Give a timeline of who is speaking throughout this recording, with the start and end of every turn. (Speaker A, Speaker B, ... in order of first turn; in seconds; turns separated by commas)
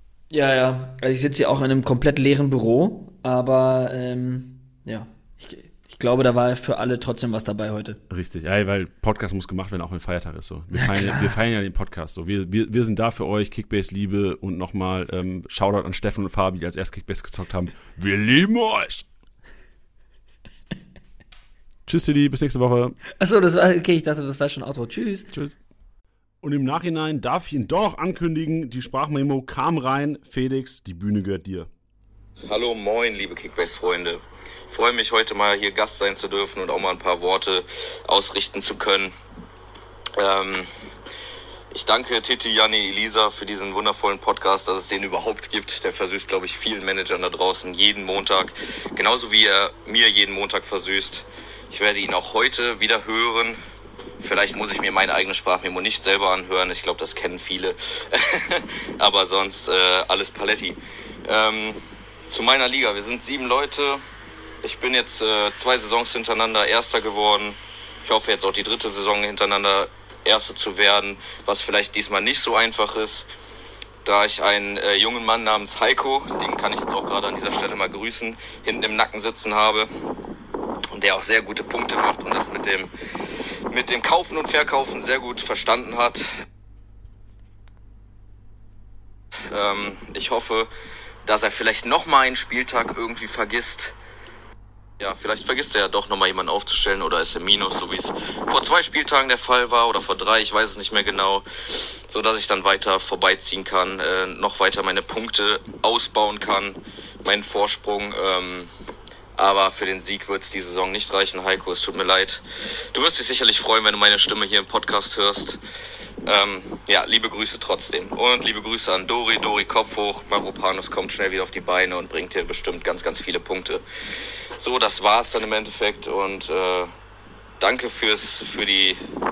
Speaker A: 0.3-8.0, Speaker B: 8.1-19.1, Speaker A: 10.7-11.3, Speaker B: 21.9-23.0, Speaker A: 23.2-25.3, Speaker B: 25.3-25.6, Speaker B: 26.4-31.7, Speaker C: 32.5-39.1, Speaker C: 40.2-40.7, Speaker C: 41.7-53.6, Speaker C: 54.2-64.0, Speaker C: 64.6-73.3, Speaker C: 74.0-79.9, Speaker C: 80.9-86.3, Speaker C: 89.5-90.7, Speaker C: 91.2-93.9, Speaker C: 95.0-101.4, Speaker C: 102.1-108.7, Speaker C: 109.3-112.4, Speaker C: 112.9-115.6, Speaker C: 116.2-123.8, Speaker C: 124.6-126.9, Speaker C: 127.6-129.0